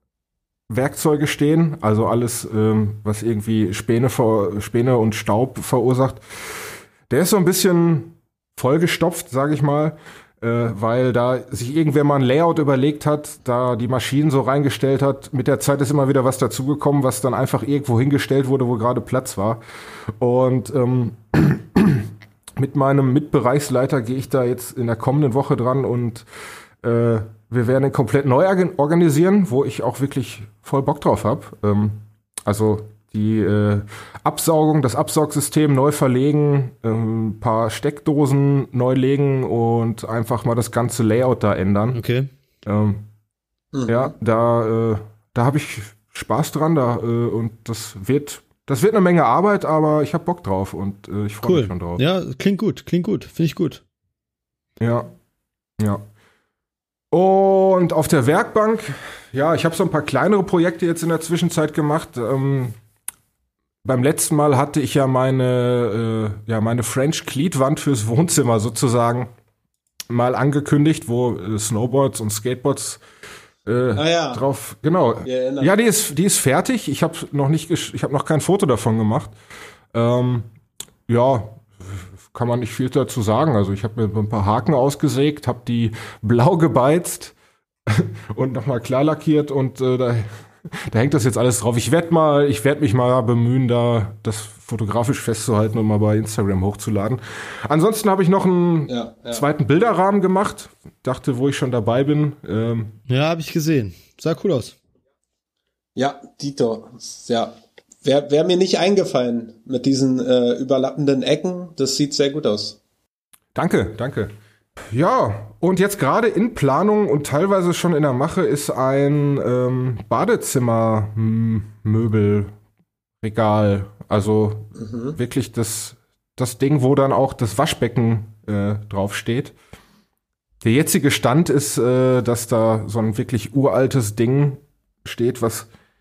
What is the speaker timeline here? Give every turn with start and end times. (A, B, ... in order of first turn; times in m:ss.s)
0:00.7-0:06.2 A
0:07.1-0:19.6 A
0:20.2-0:26.3 A
0:26.8-0:42.0 A
0:41.9-0:42.3 B
0:42.6-0:43.0 A
0:43.7-0:44.2 C
0:43.9-0:52.0 A
0:51.4-0:53.8 B
0:54.8-0:55.1 A
0:55.8-0:56.0 A
0:57.1-1:02.8 A
1:03.8-1:09.3 A
1:10.1-1:13.0 A
1:13.7-1:19.4 A
1:14.0-1:14.4 C
1:15.2-1:15.8 C
1:19.9-1:20.5 A
1:21.1-1:27.4 A
1:27.9-1:42.9 A
1:38.9-1:39.5 C
1:43.1-1:44.8 B
1:46.0-1:52.8 C
1:53.6-1:54.3 A
1:54.9-2:02.5 A
2:03.2-2:09.5 A
2:04.8-2:05.2 C
2:10.6-2:15.7 A